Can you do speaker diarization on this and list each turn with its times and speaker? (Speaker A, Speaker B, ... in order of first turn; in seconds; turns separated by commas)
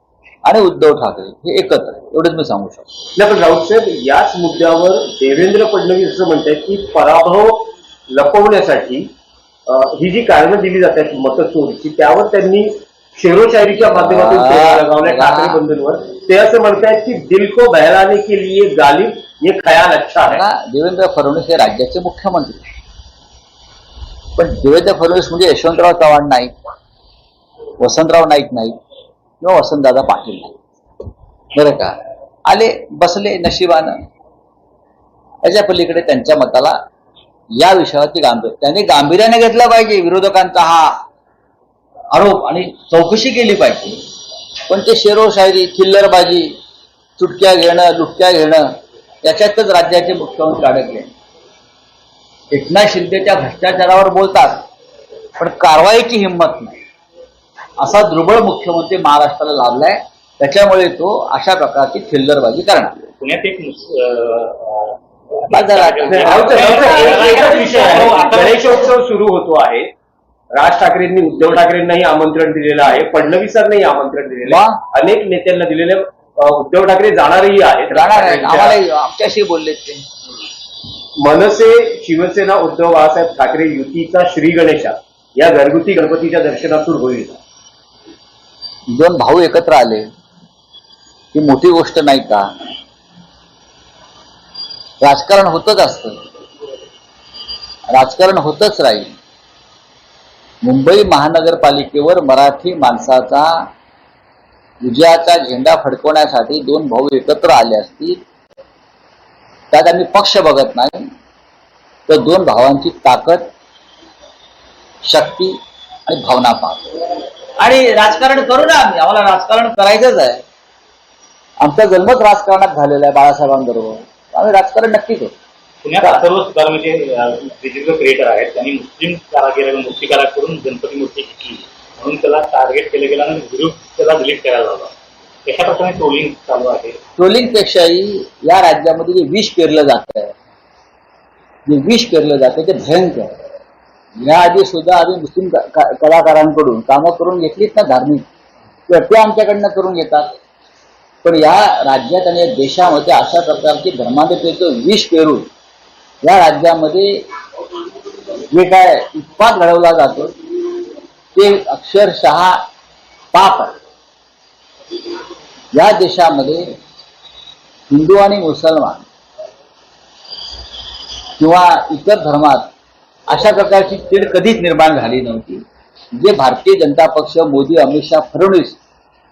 Speaker A: 0.4-2.9, Speaker B: 3.1-9.1, Speaker B: 9.7-20.4, Speaker A: 13.8-15.6, Speaker A: 20.2-22.6, Speaker A: 24.4-26.5, Speaker A: 27.8-28.7, Speaker A: 29.4-30.6, Speaker A: 31.5-34.0, Speaker A: 35.4-36.8, Speaker A: 37.6-41.0, Speaker A: 42.1-44.0, Speaker A: 44.7-46.5, Speaker A: 47.2-48.7, Speaker A: 49.2-51.1, Speaker A: 52.5-54.6, Speaker A: 55.4-56.8, Speaker A: 57.8-63.0, Speaker C: 63.2-68.8, Speaker A: 65.5-67.4, Speaker B: 66.1-69.9, Speaker B: 70.5-78.8, Speaker A: 74.5-74.8, Speaker A: 77.9-80.0, Speaker B: 81.2-87.4, Speaker A: 88.9-90.1, Speaker A: 91.3-92.5, Speaker A: 95.0-96.2, Speaker A: 97.9-99.1, Speaker A: 100.6-103.7, Speaker A: 104.8-108.2, Speaker A: 109.7-111.1, Speaker A: 112.1-113.5, Speaker A: 115.0-117.0, Speaker A: 117.6-120.4, Speaker A: 121.6-125.3, Speaker C: 125.8-134.9, Speaker C: 135.4-137.0, Speaker A: 137.2-140.3, Speaker A: 141.7-143.3, Speaker A: 144.2-148.2, Speaker A: 148.9-150.3, Speaker A: 151.2-155.5, Speaker A: 156.2-157.2, Speaker A: 158.5-160.3, Speaker A: 161.3-162.6, Speaker A: 163.3-163.8, Speaker A: 165.7-166.7, Speaker A: 167.9-169.0, Speaker A: 171.4-172.7, Speaker A: 173.3-175.6, Speaker A: 176.2-178.8